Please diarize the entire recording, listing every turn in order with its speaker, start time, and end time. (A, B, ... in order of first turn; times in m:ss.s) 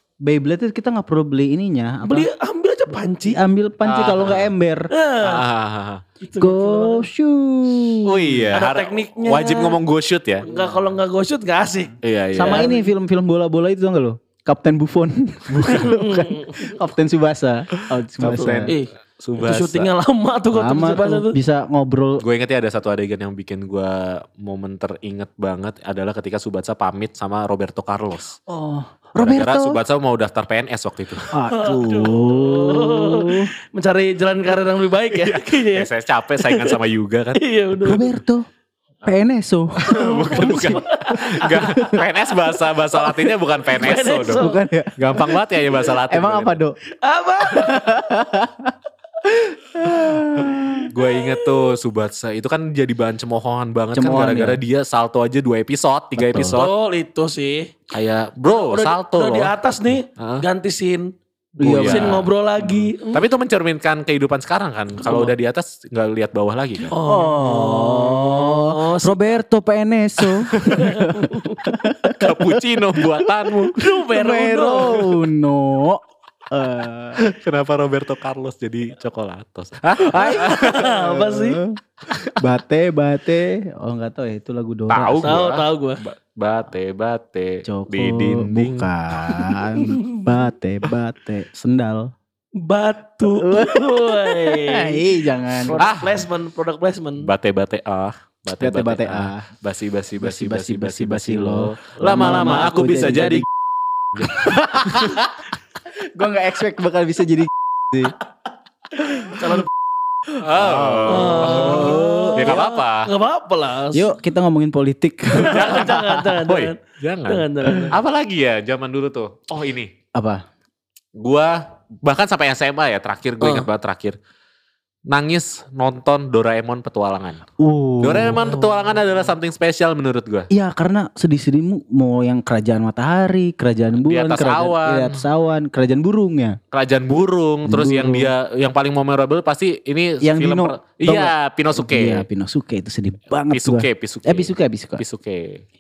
0:00.2-0:02.3 A
0:02.0-0:03.4 B
0:03.2-0:04.9 A
0:03.8-0:04.5 C
0:04.9-0:05.4 B
0:05.2-0:06.0 C
0:06.2-0:07.0 B
0:06.4-0:08.5 A
0:08.0-0:10.5 C
0:08.5-0:09.8 B
0:10.4-0:12.9 B
0:12.0-0:12.7 C
0:12.3-0:18.7 A
0:15.5-0:15.9 C
0:15.7-0:16.7 B
0:18.2-0:19.9 C
0:18.6-0:21.4 B
0:20.5-0:22.2 A
0:22.2-0:28.4 C
0:28.5-0:29.8 A
0:29.2-0:31.3 C
0:31.3-0:33.5 A
0:31.5-0:36.8 B
0:35.1-0:37.4 C
0:37.4-0:38.1 B
0:37.8-0:38.4 A
0:39.0-0:42.0 A
0:39.8-0:44.4 C
0:39.9-0:41.6 B
0:42.9-0:44.6 B
0:44.3-0:45.2 A
0:45.0-0:46.6 C
0:46.0-0:46.7 A
0:46.9-0:47.9 B
0:47.4-0:50.9 A
0:50.9-0:56.7 C
0:51.0-0:51.3 B
0:53.9-0:54.6 A
0:56.2-0:56.6 A
0:56.5-0:57.7 B
0:57.9-0:59.5 C
0:58.5-1:01.1 B
1:00.2-1:00.4 C
1:01.6-1:02.3 A
1:01.6-1:02.2 C
1:01.7-1:03.2 B
1:03.1-1:06.9 C
1:05.0-1:05.3 B
1:06.9-1:09.2 B
1:07.0-1:17.2 A
1:10.4-1:10.9 C
1:10.7-1:11.7 B
1:12.2-1:13.8 C
1:13.7-1:15.2 B
1:17.2-1:20.9 C
1:20.0-1:21.8 A
1:20.2-1:21.6 B
1:22.1-1:22.4 C
1:22.4-1:25.4 A
1:24.9-1:29.6 C
1:25.2-1:26.0 B
1:27.6-1:32.1 A
1:29.8-1:30.3 B
1:32.6-1:37.3 B
1:33.2-1:35.8 A
1:35.8-1:36.2 C
1:37.2-1:43.4 C
1:38.6-1:39.5 A
1:40.2-1:43.5 A
1:42.1-1:43.4 B
1:44.1-1:45.2 C
1:44.2-1:45.2 A
1:46.0-1:48.1 A
1:49.0-1:49.6 A
1:49.3-1:49.7 B
1:50.3-1:52.6 A
1:50.4-1:53.1 C
1:51.1-1:54.1 B
1:53.9-1:56.0 A
1:55.4-1:58.0 B
1:55.4-1:59.9 C
2:00.1-2:00.4 A
2:01.2-2:04.2 C
2:05.1-2:07.4 C
2:07.6-2:08.5 A
2:08.0-2:10.5 C
2:10.5-2:16.6 A
2:14.0-2:15.2 C
2:16.7-2:22.2 C
2:17.7-2:18.3 A
2:20.2-2:25.0 A
2:23.5-2:25.6 C